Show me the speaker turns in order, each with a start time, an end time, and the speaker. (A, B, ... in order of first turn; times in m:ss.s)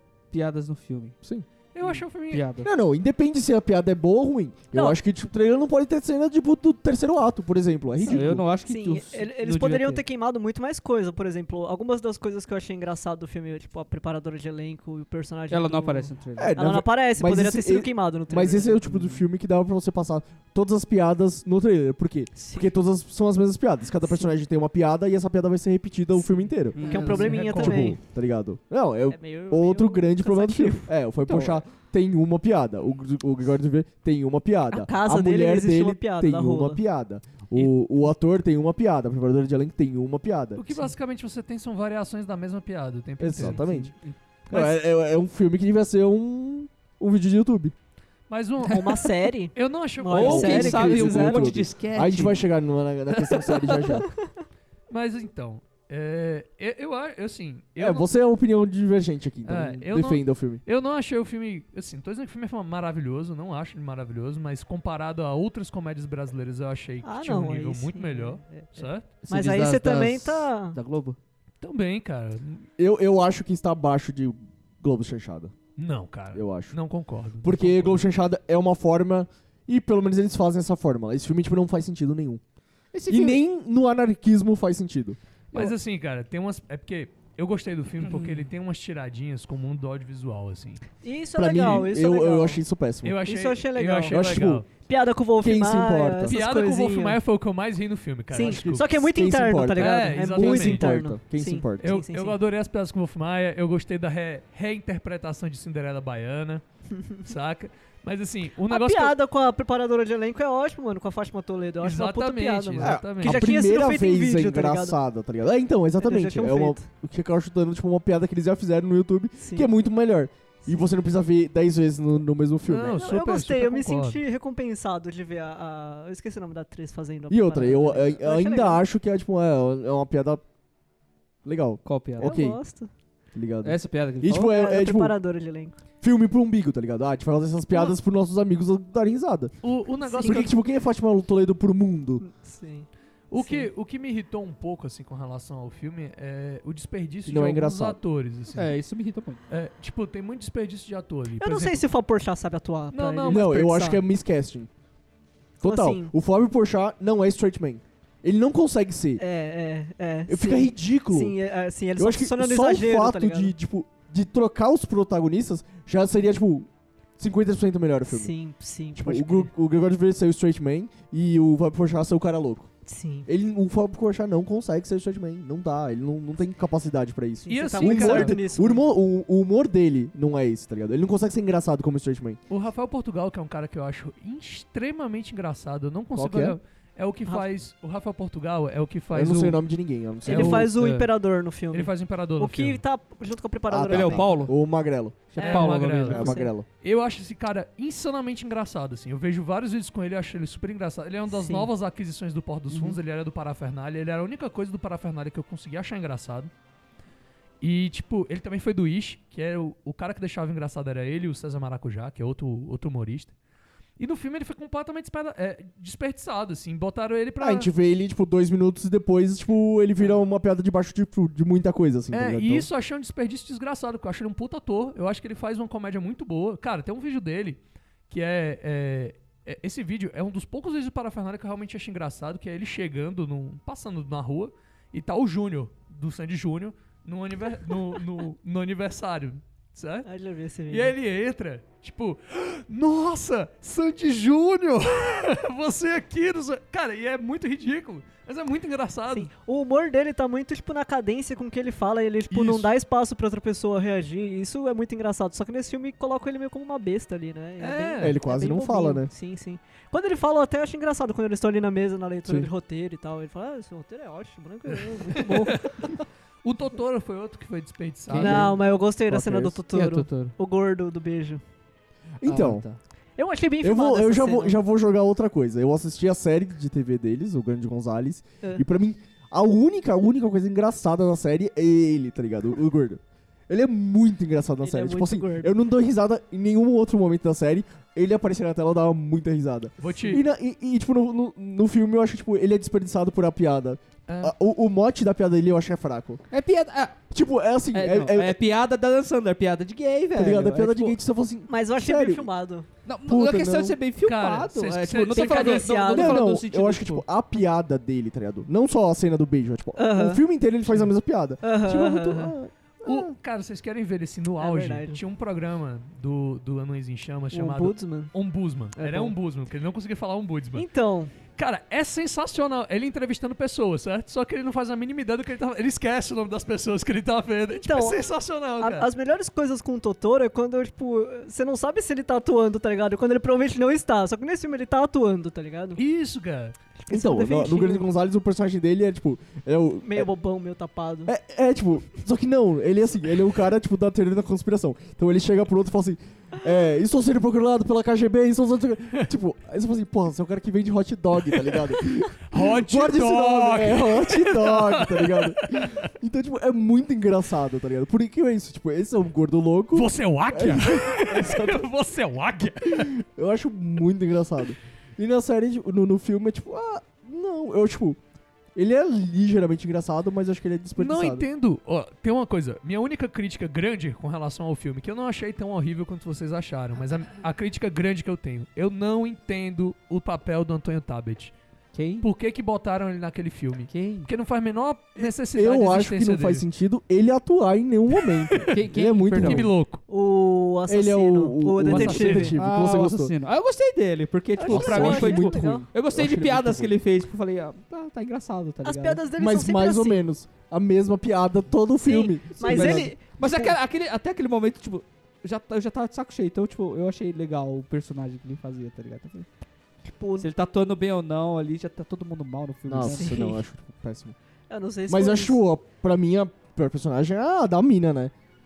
0:00.3-0:01.2 A
0:01.7-0:02.5 B
0:01.8-0:02.7 A
0:02.6-0:08.4 C
0:04.7-0:05.0 D
0:08.0-0:18.8 D
0:08.0-0:10.0 A
0:15.5-0:16.5 A
0:16.4-0:40.8 C
0:18.8-0:19.2 A
0:22.4-0:22.7 D
0:26.7-0:27.5 A
0:26.8-0:28.0 D
0:26.8-0:28.0 B
0:29.1-0:31.6 D
0:34.7-0:36.8 D
0:40.6-0:43.6 B
0:43.2-0:43.9 C
0:43.5-0:44.2 A
0:44.5-0:47.7 C
0:48.3-0:51.0 B
0:48.6-0:51.5 D
0:50.1-0:52.4 A
0:50.2-0:54.1 C
0:53.1-0:54.0 A
0:54.9-0:58.1 B
0:57.8-1:00.6 C
0:59.4-1:09.1 B
1:07.0-1:10.8 D
1:09.2-1:11.2 A
1:11.6-1:12.7 B
1:12.8-1:15.5 C
1:15.8-1:18.0 B
1:16.3-1:16.8 C
1:17.4-1:22.4 C
1:22.9-1:23.4 A
1:23.1-1:25.2 C
1:25.5-1:30.8 B
1:28.0-1:28.5 A
1:31.0-1:32.6 D
1:31.4-1:33.2 C
1:33.0-1:34.6 B
1:33.2-1:37.2 D
1:34.1-1:34.6 C
1:35.4-1:36.4 C
1:36.2-1:38.9 B
1:38.3-1:42.4 D
1:38.3-1:41.9 C
1:39.8-1:41.0 B
1:41.8-1:46.6 B
1:47.2-1:49.2 B
1:48.7-1:55.0 D
1:51.8-1:53.5 B
1:52.8-2:03.0 C
1:56.0-1:56.9 D
1:59.4-1:59.7 D
2:02.7-2:04.2 B
2:02.9-2:08.8 D
2:07.3-2:10.4 C
2:11.4-2:12.6 C
2:11.8-2:12.3 A
2:12.2-2:12.9 D
2:13.3-2:15.1 C
2:13.6-2:14.5 A
2:14.4-2:15.8 D
2:16.0-2:19.5 C
2:19.6-2:20.5 B
2:20.1-2:20.4 D
2:20.2-2:22.2 C
2:22.2-2:23.7 D
2:23.3-2:28.8 B
2:27.2-2:28.0 C
2:28.5-2:29.4 A
2:29.5-2:31.8 B
2:31.4-2:34.0 D
2:32.9-2:33.7 B
2:33.2-2:34.7 C
2:35.6-2:39.2 C
2:35.6-2:36.1 D
2:39.2-2:43.5 D
2:40.3-2:41.3 C
2:42.0-2:48.3 C
2:48.1-2:49.5 D
2:48.9-2:52.7 C
2:52.8-2:53.3 D
2:53.3-3:02.4 C
2:57.4-2:58.8 D
2:57.5-2:58.4 B
3:02.5-3:09.6 B
3:06.1-3:06.6 C
3:09.1-3:10.7 C
3:10.2-3:14.4 D
3:10.2-3:10.7 B
3:10.6-3:11.1 A
3:11.7-3:12.8 B
3:13.7-3:16.6 C
3:13.9-3:14.6 A
3:15.3-3:16.4 A
3:15.4-3:16.5 D
3:15.4-3:26.5 B
3:21.3-3:21.7 D
3:22.7-3:23.0 A
3:27.6-3:33.3 B
3:34.0-3:37.7 B
3:37.4-3:42.7 C
3:42.1-4:00.1 B
4:00.0-4:00.9 D
4:00.7-4:09.3 B
4:09.1-4:25.9 D
4:12.3-4:12.7 B
4:17.6-4:18.2 B
4:18.0-4:19.1 C
4:25.1-4:25.9 B
4:26.4-4:28.5 B
4:28.1-4:28.6 A
4:28.2-4:31.4 D
4:29.1-4:30.3 A
4:32.2-4:32.6 C
4:32.2-4:32.8 A
4:33.2-4:34.6 D
4:33.6-4:56.2 C
4:44.6-4:45.5 D
4:49.8-4:50.2 B
4:54.1-4:54.3 B
4:56.3-4:57.0 A
4:57.1-4:58.4 C
4:57.7-5:01.0 A
5:00.1-5:02.3 C
5:01.5-5:02.7 D
5:02.8-5:07.0 A
5:03.1-5:03.8 C
5:04.0-5:05.8 B
5:05.1-5:06.3 D
5:05.9-5:13.1 C
5:09.8-5:10.2 D
5:11.4-5:12.3 D
5:12.8-5:20.6 B
5:14.4-5:15.0 D
5:17.3-5:18.1 D
5:18.8-5:19.1 D
5:20.5-5:21.1 D
5:21.4-5:28.9 B
5:27.5-5:35.8 D
5:35.8-5:36.6 B
5:36.8-5:37.8 D
5:36.9-5:40.1 C
5:39.8-5:41.1 D
5:41.0-6:01.6 C
5:51.3-5:55.9 B
5:59.7-6:03.0 B
6:02.6-6:08.0 C
6:08.5-6:11.2 C
6:10.8-6:21.3 B
6:21.7-6:22.1 A
6:22.0-6:26.4 B
6:23.7-6:24.1 A
6:25.0-6:29.5 C
6:28.0-6:28.6 B
6:28.5-6:29.5 A
6:29.1-6:29.8 B
6:29.9-6:32.3 D
6:30.7-6:33.1 C
6:31.7-6:32.4 B
6:31.7-6:39.0 A
6:34.4-6:35.6 D
6:34.5-6:36.7 C
6:38.6-6:40.0 D
6:39.2-6:42.9 C
6:41.8-6:43.5 D
6:42.4-6:49.3 A
6:49.8-6:50.3 D
6:50.2-6:53.3 A
6:52.6-6:54.1 C
6:52.8-6:53.4 D
6:54.5-6:55.4 D
6:54.9-6:58.1 C